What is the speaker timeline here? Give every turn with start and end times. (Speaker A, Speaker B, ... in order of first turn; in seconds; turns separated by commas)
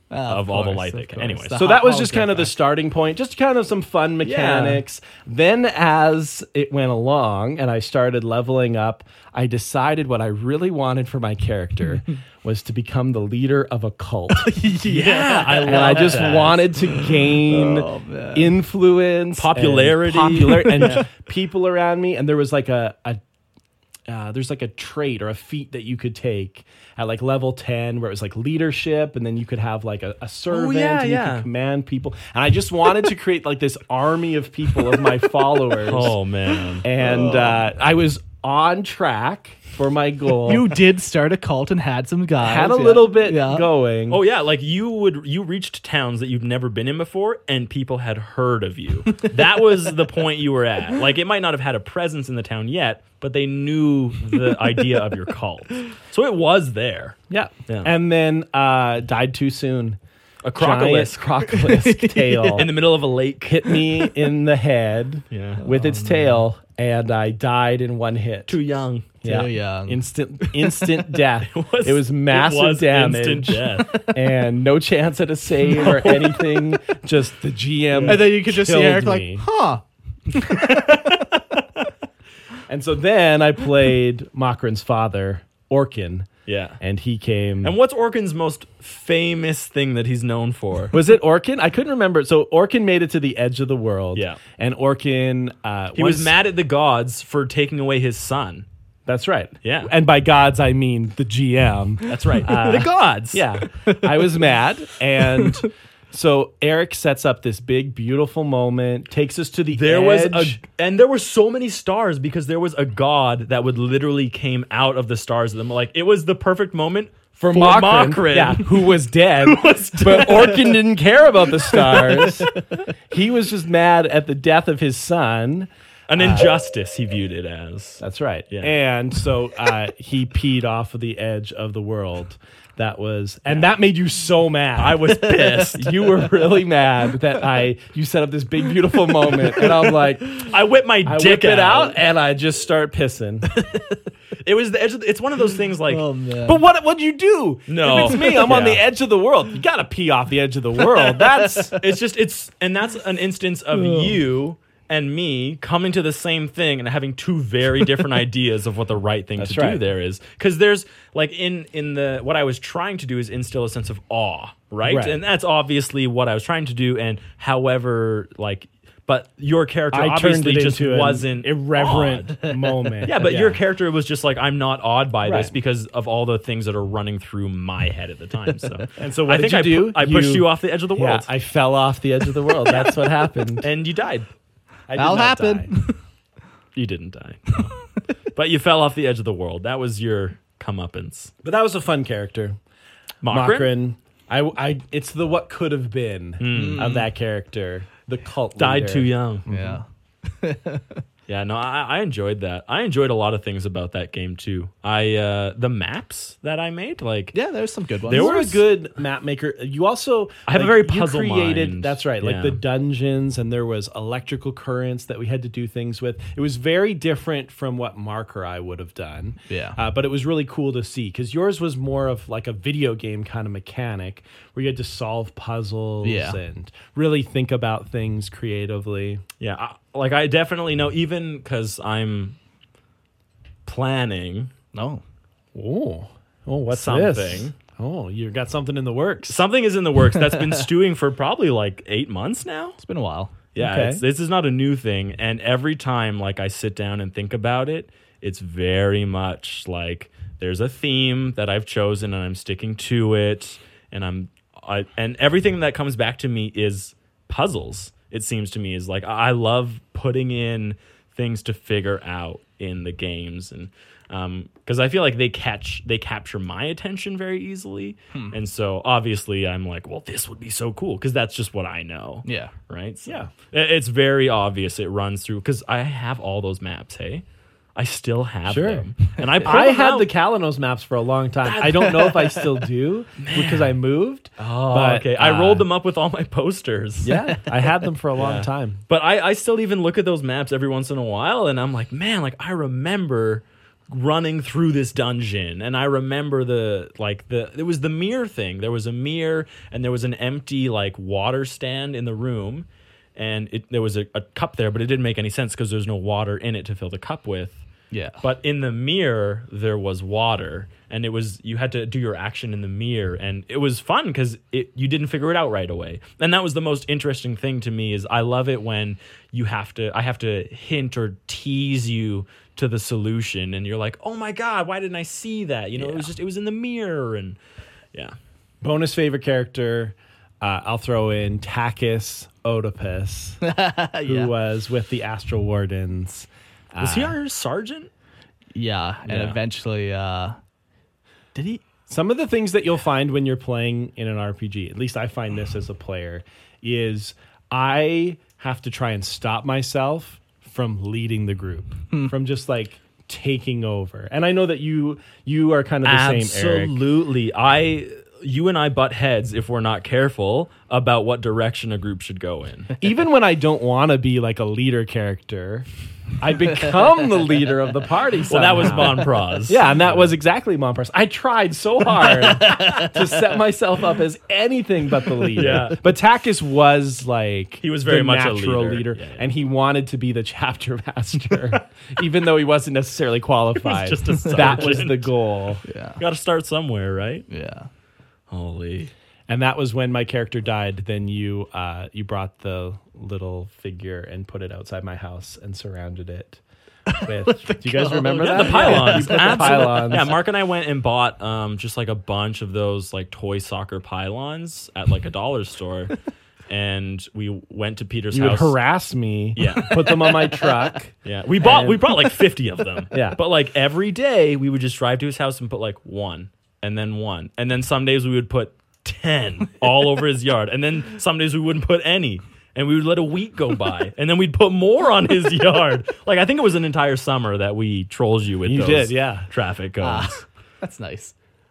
Speaker A: 0.1-2.5, Speaker B: 0.2-1.6, Speaker C: 1.6-14.5, Speaker B: 4.2-4.8, Speaker A: 14.3-18.5, Speaker B: 14.8-16.7, Speaker C: 15.6-23.2, Speaker B: 19.4-21.1, Speaker A: 20.6-21.0, Speaker C: 24.1-36.1, Speaker B: 30.5-31.5, Speaker B: 35.8-36.8, Speaker C: 36.8-40.7, Speaker A: 37.0-37.6, Speaker A: 40.4-43.7, Speaker C: 42.4-44.2, Speaker B: 44.1-57.9, Speaker C: 57.3-60.0, Speaker B: 60.4-61.3, Speaker C: 60.6-62.7, Speaker A: 61.5-62.6, Speaker B: 62.5-63.9, Speaker C: 63.4-68.6, Speaker B: 65.3-65.6, Speaker A: 65.6-66.4, Speaker B: 68.5-69.2, Speaker C: 69.2-79.4, Speaker A: 69.2-70.7, Speaker B: 71.4-74.0, Speaker B: 75.7-76.7, Speaker B: 77.9-78.2, Speaker A: 78.0-80.9, Speaker B: 80.4-81.6, Speaker C: 82.7-86.3, Speaker B: 86.5-86.8, Speaker C: 86.8-87.7, Speaker B: 87.6-90.9, Speaker C: 90.9-96.3, Speaker B: 94.1-94.4, Speaker B: 95.9-98.7, Speaker C: 99.0-110.6, Speaker B: 99.6-99.9, Speaker B: 102.0-103.5, Speaker B: 109.7-120.8, Speaker C: 117.4-122.5, Speaker B: 121.6-122.6, Speaker C: 123.1-126.5, Speaker B: 126.1-128.7, Speaker C: 128.0-140.4, Speaker B: 134.8-136.1, Speaker B: 140.3-142.0, Speaker C: 141.0-143.5, Speaker A: 143.6-144.0, Speaker B: 144.4-146.0, Speaker A: 145.9-146.6, Speaker C: 146.4-151.8, Speaker B: 147.7-148.8, Speaker A: 148.0-148.3, Speaker A: 151.5-151.8, Speaker B: 151.8-172.4, Speaker A: 153.8-154.2, Speaker C: 159.4-159.8, Speaker C: 164.8-165.2, Speaker C: 169.9-173.6, Speaker B: 173.0-181.3, Speaker C: 175.2-175.5, Speaker C: 179.0-183.7, Speaker B: 182.7-182.9, Speaker B: 183.6-184.3, Speaker C: 184.9-185.7, Speaker A: 184.9-186.0, Speaker B: 186.8-187.8, Speaker B: 188.3-191.3, Speaker C: 191.4-192.6, Speaker B: 193.2-193.7, Speaker C: 193.3-199.8, Speaker B: 196.4-197.1, Speaker A: 196.5-197.0, Speaker B: 198.6-199.4, Speaker A: 199.5-201.0, Speaker B: 201.3-207.3, Speaker A: 207.3-208.5, Speaker B: 208.0-208.6, Speaker C: 208.1-229.2, Speaker B: 210.5-212.6, Speaker A: 219.5-219.8, Speaker A: 226.0-226.4, Speaker B: 229.4-232.3, Speaker B: 233.7-234.5, Speaker A: 234.7-235.0, Speaker C: 235.5-239.4, Speaker B: 236.7-237.5, Speaker B: 239.3-242.8, Speaker A: 242.8-243.4, Speaker B: 243.5-277.2, Speaker C: 243.6-244.0, Speaker A: 272.2-272.5, Speaker B: 277.8-280.1, Speaker C: 278.4-278.9, Speaker C: 279.4-285.6, Speaker B: 281.4-282.2, Speaker B: 283.2-283.8, Speaker B: 284.4-287.2, Speaker C: 287.0-288.8, Speaker B: 288.1-307.6, Speaker A: 307.9-308.2, Speaker B: 308.2-327.4, Speaker C: 328.6-333.4, Speaker A: 333.4-334.3, Speaker C: 334.0-337.1, Speaker B: 336.8-337.9, Speaker A: 338.5-340.4, Speaker C: 339.1-339.3, Speaker A: 341.3-341.6, Speaker C: 341.9-356.8, Speaker B: 355.8-362.7, Speaker C: 362.8-365.7, Speaker C: 366.2-385.6, Speaker B: 368.3-370.1, Speaker B: 372.0-372.8, Speaker B: 375.3-375.8, Speaker B: 377.6-379.2, Speaker B: 383.6-385.1, Speaker A: 384.4-384.8, Speaker A: 385.7-386.0, Speaker B: 386.0-387.3, Speaker A: 387.3-387.7, Speaker B: 388.3-388.9, Speaker C: 389.3-396.4, Speaker A: 396.9-400.1, Speaker C: 396.9-400.1, Speaker B: 398.2-408.6, Speaker C: 408.1-411.9, Speaker B: 409.4-410.3, Speaker B: 411.0-430.2, Speaker C: 412.9-413.2, Speaker C: 428.4-429.3, Speaker A: 429.8-431.1